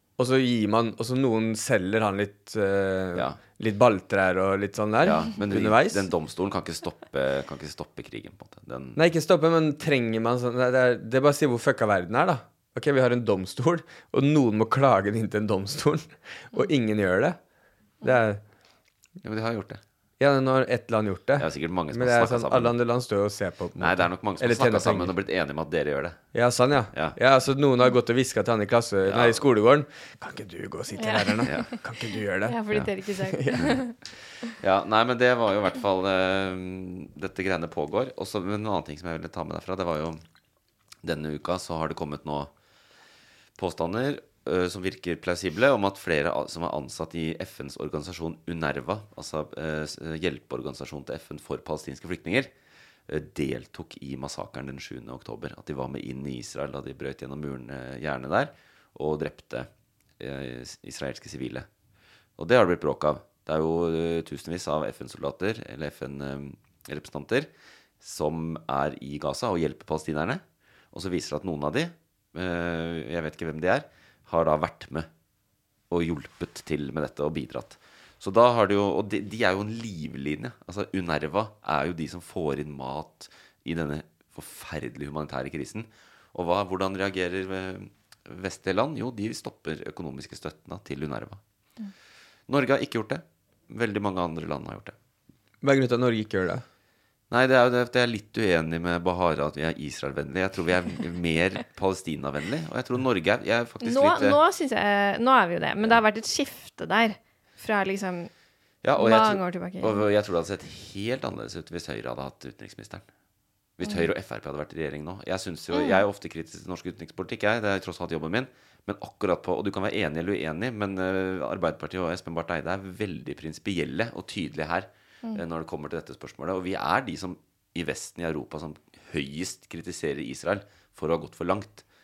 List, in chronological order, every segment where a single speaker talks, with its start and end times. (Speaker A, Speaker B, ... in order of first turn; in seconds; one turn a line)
Speaker A: 0.2-6.1
Speaker B: 5.0-9.0
Speaker A: 9.0-17.4
Speaker A: 18.0-18.4
Speaker B: 19.2-19.8
Speaker A: 20.2-25.1
Speaker B: 21.4-22.8
Speaker B: 23.8-26.2
Speaker A: 26.3-32.6
Speaker B: 29.1-29.5
Speaker C: 31.0-31.8
Speaker C: 32.4-34.0
Speaker A: 33.3-33.8
Speaker B: 34.6-40.2
Speaker B: 41.0-42.5
Speaker B: 43.6-52.5
Speaker B: 53.1-59.7
Speaker B: 60.2-61.7
Speaker B: 62.4-67.5
Speaker B: 68.0-75.1
Speaker B: 75.9-91.4
Speaker B: 92.5-95.0
Speaker A: 95.6-96.6
Speaker B: 97.3-104.4
Speaker C: 103.8-108.3
Speaker B: 108.8-113.0
Speaker C: 109.0-110.0
Speaker B: 113.8-131.8
Speaker C: 115.7-116.0